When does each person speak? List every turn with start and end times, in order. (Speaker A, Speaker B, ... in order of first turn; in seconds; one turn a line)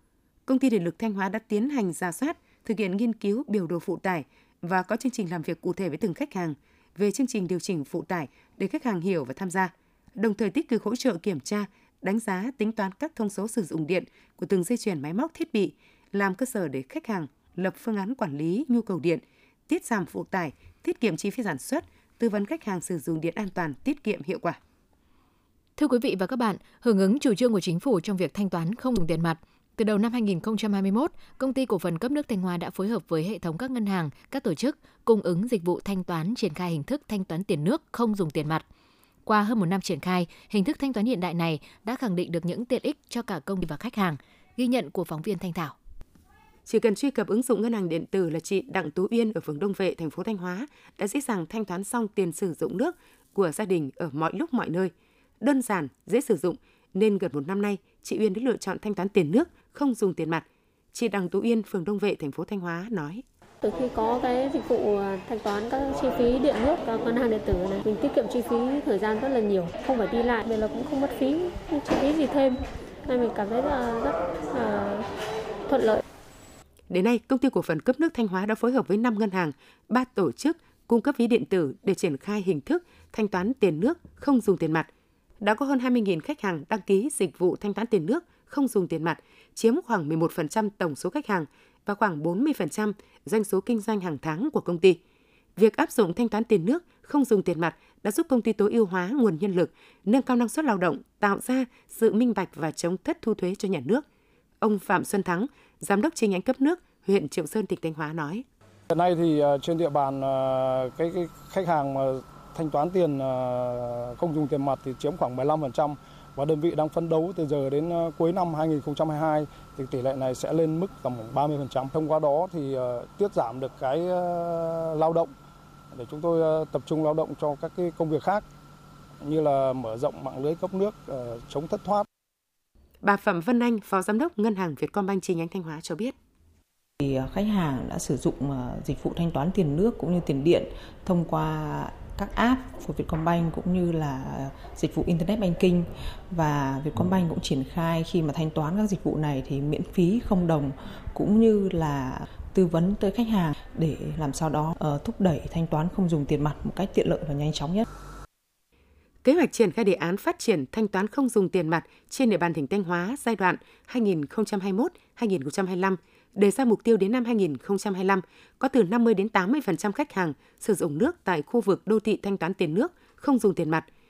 Speaker A: 0.5-24.6
Speaker B: 25.8-38.6
Speaker B: 39.2-45.7
Speaker A: 46.7-63.2
Speaker C: 63.6-72.5
Speaker C: 73.1-75.0
Speaker C: 75.7-76.0
Speaker A: 76.9-84.9
Speaker A: 85.4-95.0
Speaker A: 95.5-104.0
Speaker A: 104.6-108.4
Speaker D: 108.9-125.3
Speaker D: 125.9-128.4
Speaker D: 129.2-132.1
Speaker A: 133.0-136.1
Speaker E: 137.0-157.8
Speaker A: 159.2-173.8